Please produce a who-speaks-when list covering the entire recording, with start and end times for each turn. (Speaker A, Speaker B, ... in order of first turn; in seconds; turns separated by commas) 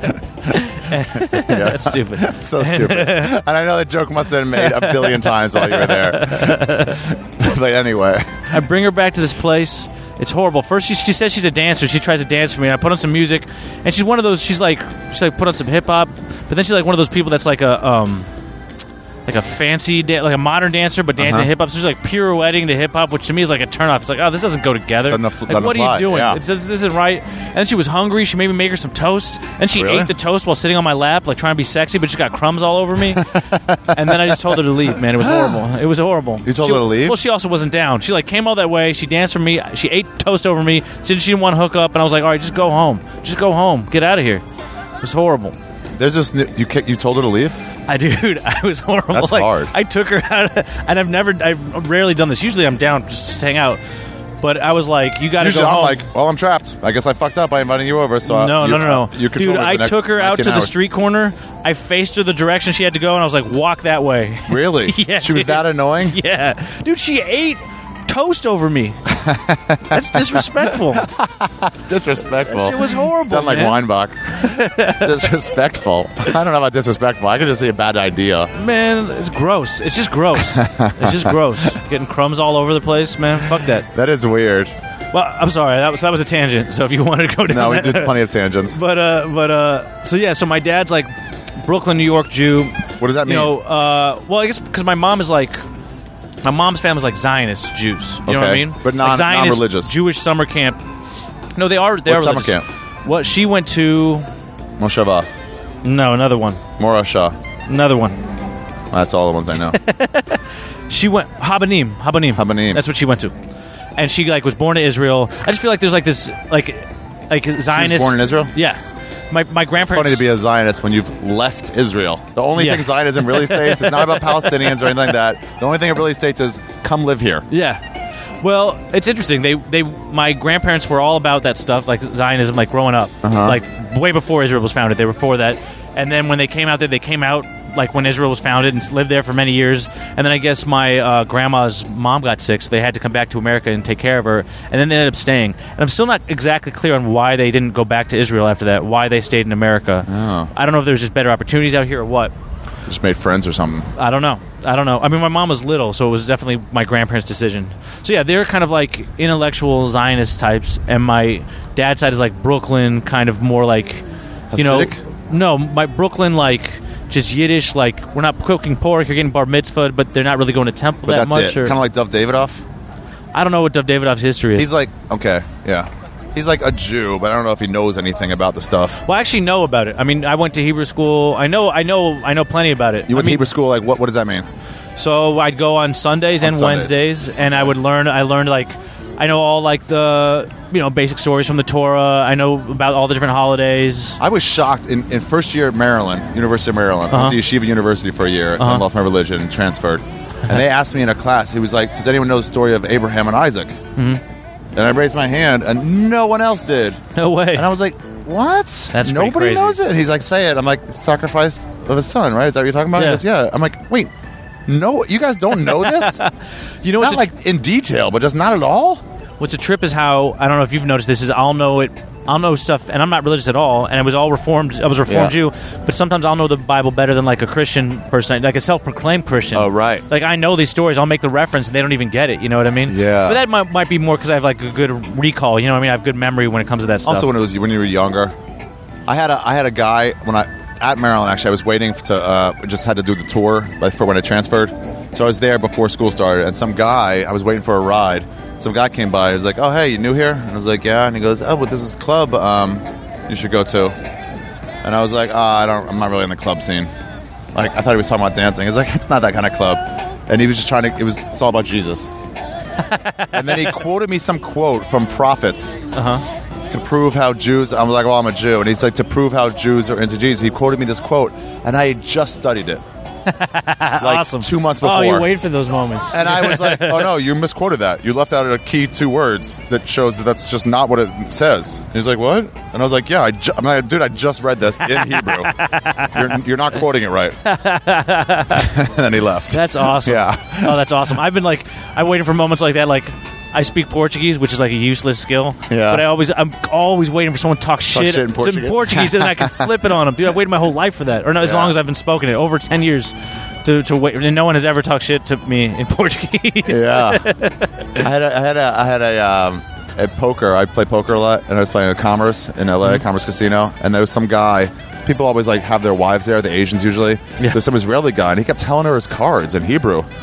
Speaker A: 0.5-3.4, Speaker B: 1.2-8.5, Speaker A: 4.6-7.0, Speaker A: 8.5-18.3, Speaker A: 19.3-33.4, Speaker B: 21.2-21.5, Speaker B: 25.1-26.4, Speaker B: 29.7-30.1, Speaker B: 33.2-34.6, Speaker A: 33.9-44.4, Speaker B: 35.2-35.6, Speaker B: 36.5-37.2, Speaker A: 45.0-45.5, Speaker B: 46.0-47.6, Speaker A: 47.9-53.8, Speaker B: 49.1-49.7, Speaker A: 54.4-56.0, Speaker B: 55.4-60.7, Speaker A: 58.3-69.0, Speaker B: 64.5-66.2, Speaker B: 69.1-78.5, Speaker A: 69.9-71.0, Speaker A: 72.5-73.8, Speaker A: 74.4-75.3, Speaker A: 78.5-83.9, Speaker B: 80.5-81.3, Speaker B: 83.9-84.7, Speaker A: 85.1-88.2, Speaker B: 87.5-88.8, Speaker A: 88.7-91.1, Speaker A: 91.6-95.6, Speaker B: 93.0-93.5, Speaker A: 96.4-100.8, Speaker B: 98.3-99.9, Speaker A: 101.5-104.3, Speaker B: 102.0-102.6, Speaker B: 104.8-105.3, Speaker A: 105.8-106.6, Speaker B: 106.8-107.4, Speaker A: 107.7-108.2, Speaker B: 108.9-109.8, Speaker A: 109.7-113.3, Speaker B: 112.4-112.8, Speaker A: 114.0-118.8, Speaker B: 117.7-118.5, Speaker A: 119.3-120.2, Speaker B: 119.7-127.5, Speaker A: 122.6-125.1, Speaker A: 127.5-127.8, Speaker A: 128.4-152.3, Speaker B: 133.2-133.6, Speaker B: 150.1-150.5, Speaker B: 152.9-153.9, Speaker A: 154.0-164.0, Speaker B: 164.5-165.0, Speaker A: 164.6-171.8, Speaker B: 171.1-172.6, Speaker A: 173.3-174.7, Speaker B: 174.6-179.0, Speaker A: 179.1-183.4, Speaker B: 183.1-184.5, Speaker A: 185.0-194.2, Speaker B: 186.4-186.9, Speaker B: 194.2-203.8, Speaker A: 197.1-197.4, Speaker A: 198.6-198.8, Speaker A: 203.9-204.2, Speaker B: 204.8-207.0, Speaker A: 207.1-207.7, Speaker B: 207.5-214.1, Speaker A: 208.9-209.8, Speaker A: 212.9-213.2, Speaker B: 214.7-216.2, Speaker A: 215.6-216.3, Speaker A: 216.8-217.2, Speaker B: 217.0-219.0, Speaker A: 219.4-237.3, Speaker B: 225.1-225.3, Speaker B: 229.6-230.1, Speaker B: 232.9-233.4, Speaker B: 237.1-238.3, Speaker B: 239.1-253.9, Speaker B: 254.8-256.9, Speaker B: 257.5-262.1, Speaker A: 262.9-263.8, Speaker B: 263.3-265.7, Speaker A: 265.9-266.2, Speaker B: 266.7-272.8, Speaker A: 273.3-277.1, Speaker B: 274.0-275.3, Speaker B: 276.1-285.5, Speaker A: 284.9-286.4, Speaker B: 286.1-287.4, Speaker A: 287.4-288.7, Speaker B: 288.5-290.8, Speaker A: 289.5-303.1, Speaker B: 295.7-296.1, Speaker B: 297.9-299.7, Speaker B: 301.4-301.7, Speaker A: 303.6-307.7, Speaker B: 306.7-307.3, Speaker B: 308.0-320.1